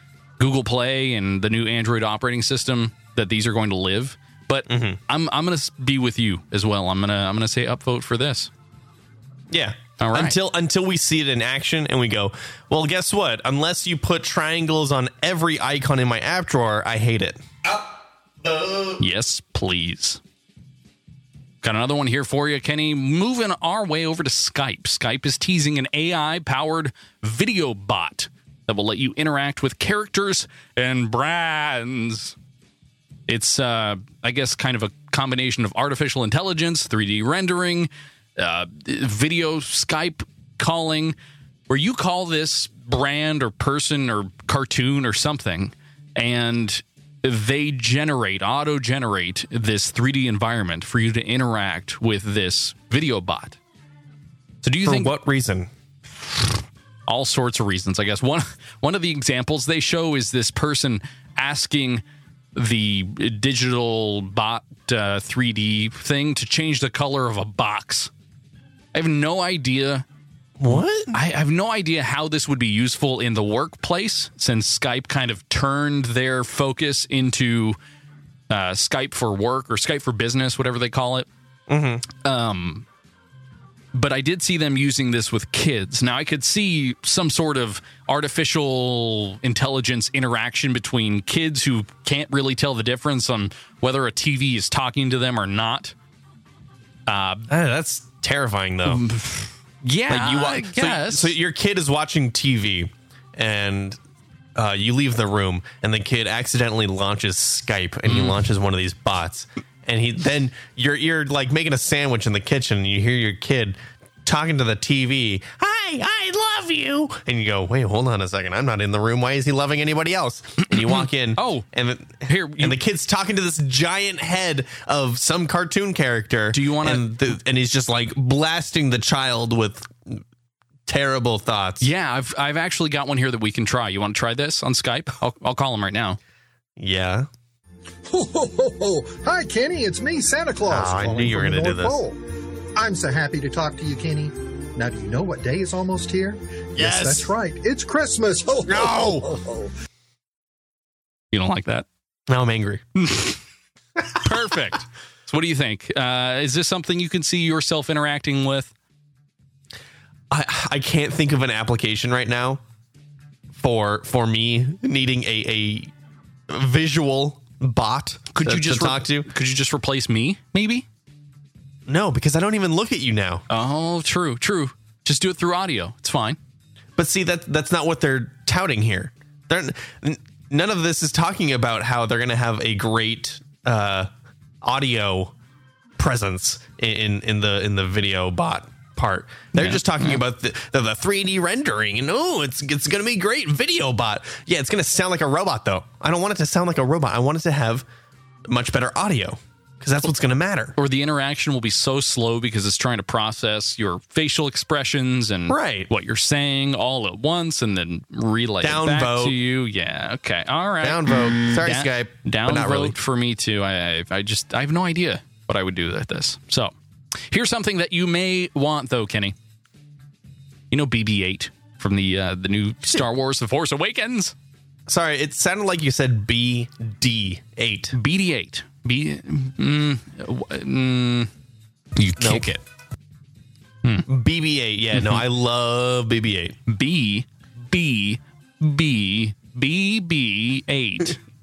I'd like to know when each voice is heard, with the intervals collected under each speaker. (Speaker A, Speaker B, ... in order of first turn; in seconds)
Speaker A: 0.4-8.5, 10.0-10.4, 19.0-20.2, 21.6-32.3, 33.3-41.1, 41.7-53.6, 54.6-55.1, 57.1-62.0, 62.5-68.1, 68.9-70.0, 70.7-77.8, 78.5-81.3, 82.2-82.8, 83.9-95.9, 97.1-97.5, 98.8-101.3, 108.1-108.4, 120.7-121.7, 122.2-122.8, 126.5-127.3, 131.8-136.2, 151.3-151.8, 153.0-153.4, 154.2-158.7, 168.3-170.8, 173.5-176.4, 189.5-190.2, 200.8-216.7, 217.3-219.3, 220.7-224.3, 227.9-231.3, 231.9-232.6, 234.9-235.2, 236.7-241.2
Speaker B: 4.7-5.0, 9.5-17.8, 18.4-19.0, 54.7-55.7, 70.6-71.2, 81.7-82.0, 97.5-99.0, 100.1-104.0, 104.5-130.2, 130.9-131.9, 136.8-137.3, 140.7-142.0, 146.8-147.3, 148.6-149.3, 152.3-152.8, 154.3-154.7, 160.3-162.6, 163.6-165.9, 166.5-169.3, 171.9-173.4, 177.0-184.1, 184.6-185.3, 186.0-197.8, 198.5-200.8, 205.5-205.9, 208.6-209.4, 210.8-213.0, 224.9-227.9, 232.2-232.6, 234.1-236.6
Speaker C: 138.1-142.2, 142.8-149.7